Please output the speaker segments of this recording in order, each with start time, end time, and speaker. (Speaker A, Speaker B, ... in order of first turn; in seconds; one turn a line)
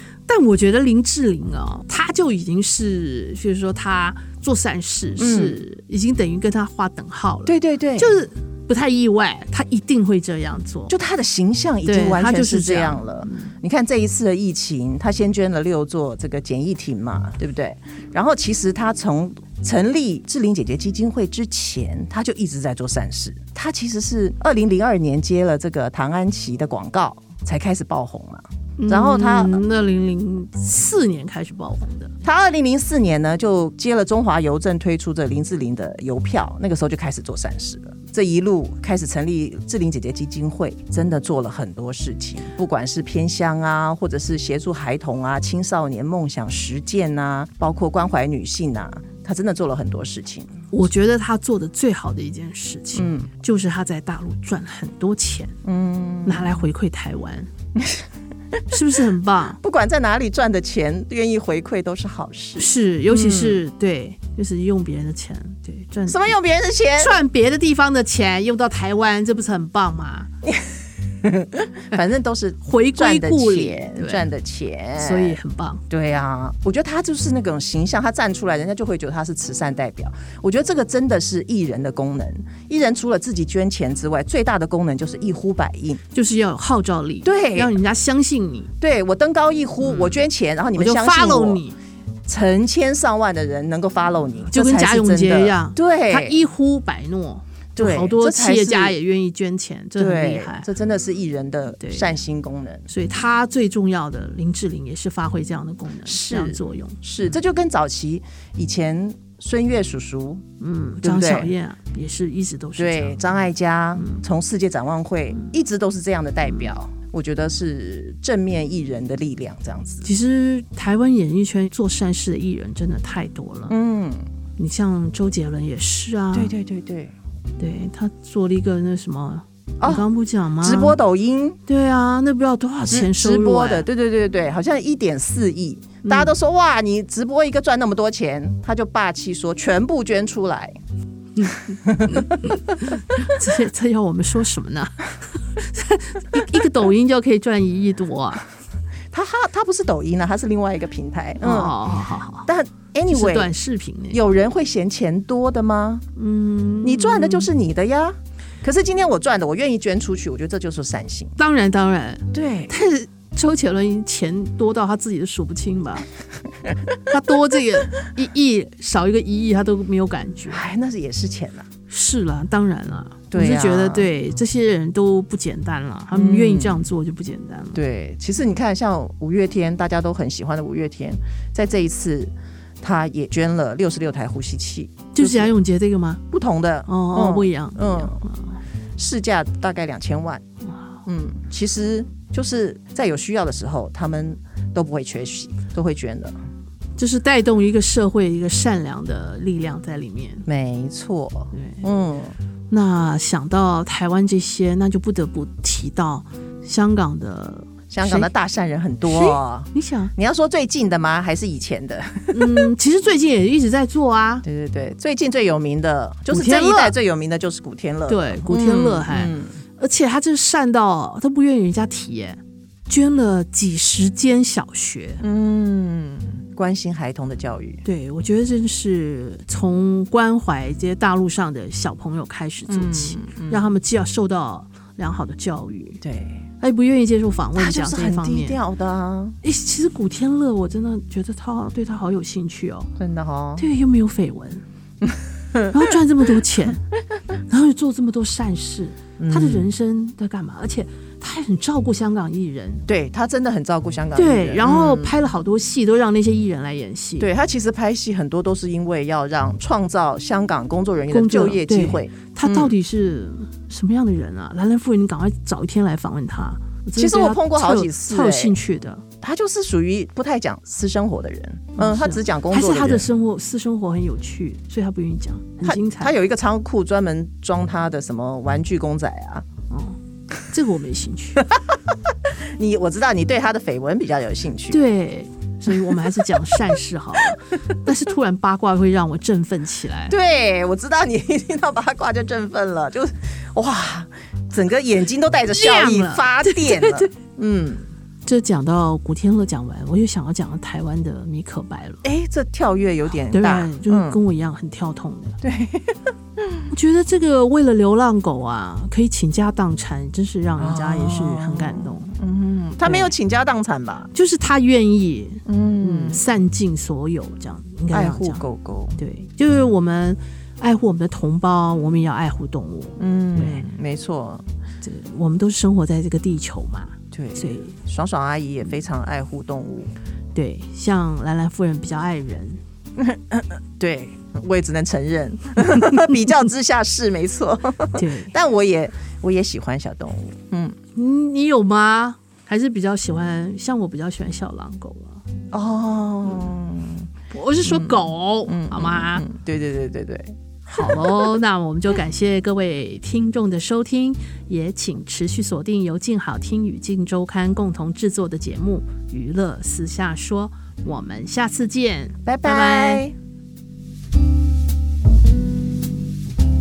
Speaker A: 0.3-10.9
Speaker B: 5.2-5.6
Speaker B: 7.5-8.2
Speaker B: 10.9-29.6
Speaker A: 11.8-13.5
Speaker A: 28.8-32.1
Speaker B: 32.2-50.5
Speaker A: 50.7-55.5
Speaker B: 52.9-53.3
Speaker B: 55.6-56.6
Speaker A: 56.2-57.5
Speaker B: 57.8-58.0
Speaker A: 58.7-59.6
Speaker B: 59.6-63.6
Speaker A: 62.6-66.3
Speaker B: 66.1-67.1
Speaker A: 67.0-70.3
Speaker B: 70.4-70.7
Speaker B: 71.2-75.4
Speaker A: 72.6-74.3
Speaker A: 75.0-75.8
Speaker B: 75.9-86.0
Speaker A: 86.1-88.7
Speaker B: 87.2-87.8
Speaker B: 88.8-91.6
Speaker A: 89.8-91.8
Speaker B: 92.2-96.5
Speaker A: 94.5-100.7
Speaker B: 97.7-99.0
Speaker B: 100.0-102.8
Speaker A: 101.8-102.2
Speaker A: 102.9-107.0
Speaker B: 106.0-110.4
Speaker A: 110.6-113.2
Speaker B: 111.0-111.5
Speaker B: 112.8-120.1
Speaker A: 120.0-123.8
Speaker B: 123.7-124.2
Speaker A: 124.6-126.5
Speaker B: 126.3-127.1
Speaker A: 127.6-131.0
Speaker B: 129.8-130.1
Speaker B: 130.6-131.6
Speaker A: 131.7-133.9
Speaker B: 132.9-140.8
Speaker A: 136.0-136.3
Speaker A: 141.4-148.4
Speaker B: 141.8-142.6
Speaker B: 149.1-151.8
Speaker A: 151.4-152.5
Speaker B: 152.4-153.5
Speaker A: 153.1-154.2
Speaker B: 154.1-156.0
Speaker A: 156.2-157.5
Speaker B: 156.8-161.3
Speaker A: 161.4-166.1
Speaker B: 162.3-162.7
Speaker A: 167.1-170.6
Speaker B: 170.5-171.7
Speaker A: 171.9-177.8
Speaker B: 173.3-174.1
Speaker B: 176.1-176.9
Speaker B: 177.7-185.5
Speaker A: 185.1-186.2
Speaker B: 186.3-188.2
Speaker A: 186.9-188.6
Speaker B: 189.0-190.4
Speaker B: 191.1-196.3
Speaker A: 196.9-200.4
Speaker B: 200.4-202.3
Speaker A: 201.5-201.9
Speaker A: 202.7-208.3
Speaker B: 207.9-212.7
Speaker A: 209.0-210.1
Speaker A: 212.3-214.4
Speaker B: 214.4-219.6
Speaker A: 216.3-216.9
Speaker A: 218.1-225.2
Speaker B: 225.2-227.8
Speaker A: 227.8-236.0
Speaker B: 232.7-233.7
Speaker B: 236.0-236.4
Speaker A: 236.6-238.6
Speaker B: 237.5-239.4
Speaker A: 239.4-242.9
Speaker B: 243.0-243.6
Speaker A: 243.6-244.6
Speaker B: 245.1-245.7
Speaker A: 245.7-246.8
Speaker A: 247.5-252.9
Speaker B: 249.2-249.7
Speaker B: 252.9-255.2
Speaker A: 254.1-257.3
Speaker B: 257.2-262.8
Speaker A: 261.1-269.0
Speaker B: 266.9-268.6
Speaker B: 269.2-273.1
Speaker A: 271.8-276.1
Speaker B: 275.6-279.4
Speaker A: 279.7-281.4
Speaker B: 282.3-284.8
Speaker A: 284.7-290.1
Speaker B: 285.7-286.0
Speaker B: 290.1-297.9
Speaker A: 295.5-297.1
Speaker A: 298.2-302.0
Speaker B: 302.0-304.2
Speaker A: 303.3-305.4
Speaker B: 305.4-306.0
Speaker A: 306.7-312.2
Speaker B: 310.6-314.1
Speaker A: 312.8-313.1
Speaker A: 314.1-318.4
Speaker B: 315.4-316.2
Speaker B: 317.9-319.0
Speaker A: 318.9-323.7
Speaker B: 323.0-324.4
Speaker A: 324.8-327.7
Speaker B: 327.1-329.9
Speaker A: 330.3-332.6
Speaker B: 333.0-340.8
Speaker A: 338.0-338.3
Speaker A: 340.9-345.2
Speaker B: 345.5-347.1
Speaker A: 347.3-349.2
Speaker B: 347.6-351.2
Speaker A: 350.7-363.1
Speaker B: 362.2-363.1